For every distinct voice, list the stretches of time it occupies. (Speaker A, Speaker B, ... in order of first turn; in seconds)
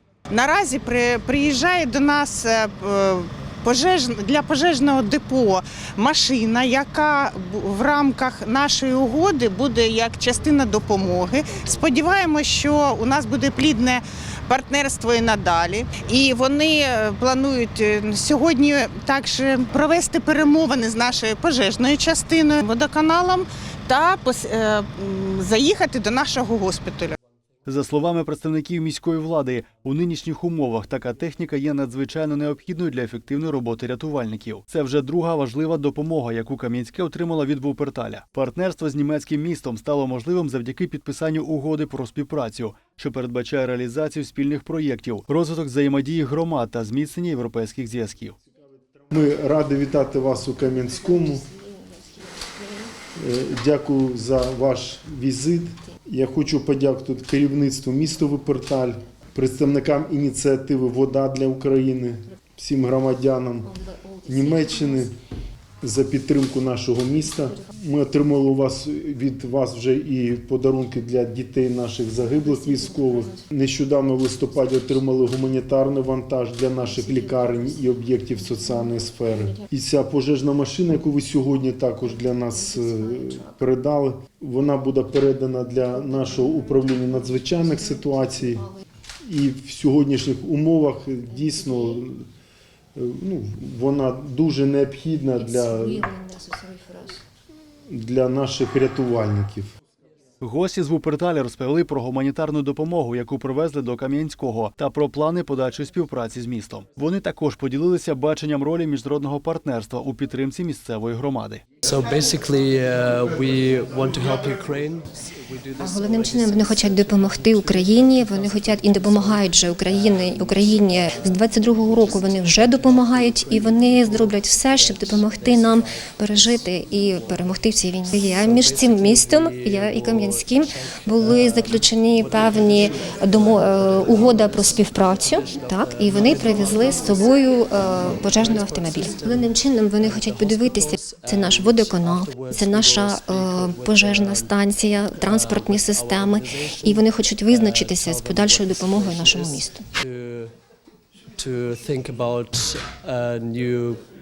Speaker A: 0.3-27.2
Speaker B: 27.6-48.4, 100.4-111.6
Speaker C: 49.1-51.5, 53.1-65.2, 65.8-88.7, 89.2-92.2, 93.0-96.2, 97.9-99.7
Speaker D: 111.8-118.0, 122.7-127.5, 128.4-130.4, 131.2-137.3, 138.0-144.5, 145.3-150.5, 151.4-154.0
Speaker E: 115.8-149.9